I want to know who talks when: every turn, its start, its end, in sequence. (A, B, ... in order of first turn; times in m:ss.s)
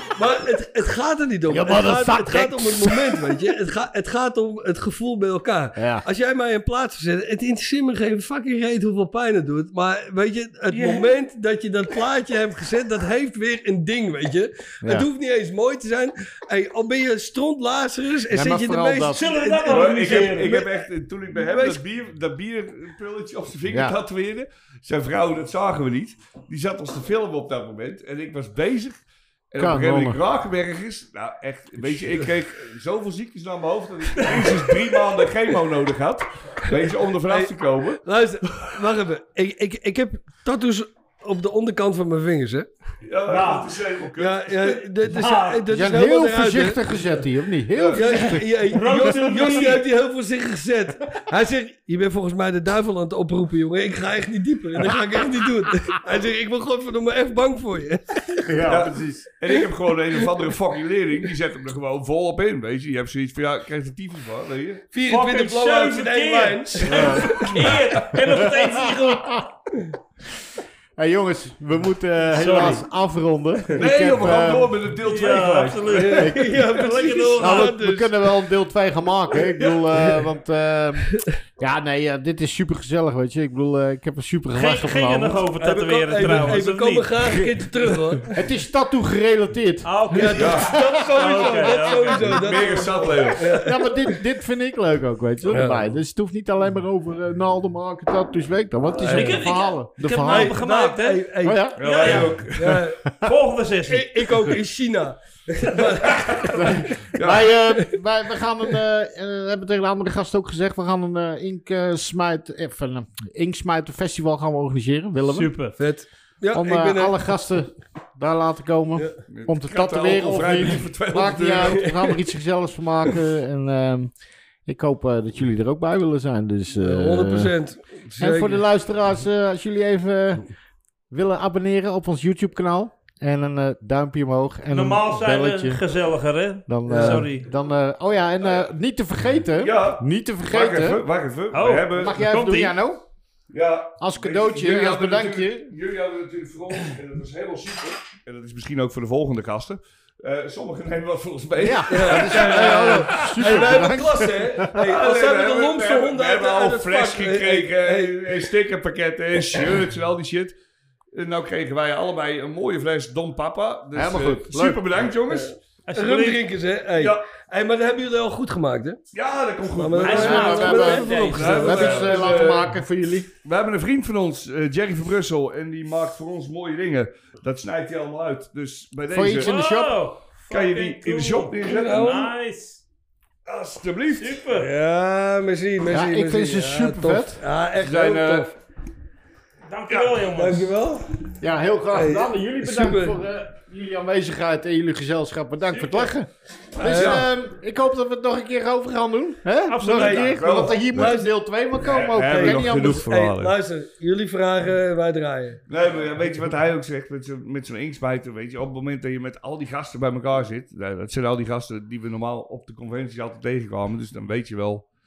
0:00.1-0:20.8 A
0:01.5-0:03.1 B
0:05.8-0:06.0 B
0:10.7-0:11.1 C
0:18.3-0:19.2 B
0:19.1-0:20.5 C
0:19.7-0:38.7 D
0:21.4-0:21.8 A
0:23.7-0:24.0 B
0:29.6-0:30.2 B
0:37.2-0:42.7 A
0:43.0-0:44.8 D
0:43.3-0:43.7 C
0:44.2-0:47.0 A
0:45.1-0:45.6 C
0:45.7-0:48.4 B
0:47.7-0:48.0 D
0:47.9-0:58.5 A
0:48.7-0:49.8 C
0:58.4-0:59.3 B
0:58.6-1:04.8 D
1:04.9-1:07.7 A
1:05.0-1:09.4 C
1:06.8-1:07.6 D
1:07.0-1:07.2 B
1:08.1-1:09.4 B
1:11.0-1:14.8 B
1:12.3-1:12.8 C
1:13.7-1:16.2 D
1:15.0-1:17.8 C
1:15.9-1:18.3 A
1:16.2-1:16.6 B
1:17.4-1:25.5 B
1:19.5-1:20.2 D
1:24.5-1:27.2 C
1:25.6-1:28.4 A
1:28.3-1:32.4 B
1:29.8-1:32.2 C
1:30.1-1:34.1 A
1:30.3-1:30.7 D
1:32.0-1:33.6 D
1:33.5-1:40.6 B
1:35.4-1:36.0 A
1:39.0-1:39.4 A
1:39.0-1:42.4 C
1:40.2-1:43.0 A
1:41.4-1:41.8 B
1:41.8-1:42.9 D
1:43.2-1:44.2 C
1:43.9-1:47.0 A
1:46.2-1:46.5 D
1:46.6-1:55.5 B
1:47.1-1:47.5 D
1:55.3-1:55.8 C
1:55.8-1:57.2 A
1:56.5-2:04.1 B
1:59.2-2:02.0 D
2:01.7-2:02.1 A
2:04.6-2:07.5 B
2:06.7-2:08.6 A
2:08.2-2:10.5 B
2:11.1-2:15.8 B
2:14.7-2:17.4 C
2:16.7-2:21.0 B
2:16.9-2:17.2 A
2:19.6-2:22.2 D
2:21.5-2:22.8 C
2:21.9-2:23.0 B
2:23.5-2:34.0 D
2:24.0-2:25.7 B
2:31.6-2:34.7 B
2:31.9-2:38.4 A
2:34.7-2:40.6 D
2:41.1-2:45.6 D
2:43.9-2:44.8 B
2:45.3-2:49.0 A
2:45.9-2:46.4 C
2:47.0-2:47.2 D
2:49.1-2:52.7 D
2:49.7-2:52.1 A
2:50.0-2:52.2 C
2:50.2-2:53.3 B
2:53.4-2:59.6 D
2:59.1-2:59.9 B
2:59.4-3:02.8 C
3:00.5-3:02.0 D
3:01.6-3:02.3 A
3:03.4-3:04.4 D
3:04.1-3:04.7 C
3:04.5-3:08.5 A
3:05.9-3:07.4 B
3:07.8-3:08.5 D
3:09.7-3:10.7 C
3:10.1-3:11.1 A
3:11.4-3:23.1 B
3:11.9-3:13.2 A
3:16.8-3:17.3 D
3:16.8-3:17.3 A
3:19.7-3:20.4 C
3:19.8-3:21.3 A
3:20.0-3:21.2 D
3:21.8-3:23.5 D
3:22.2-3:25.6 A
3:25.7-3:34.8 D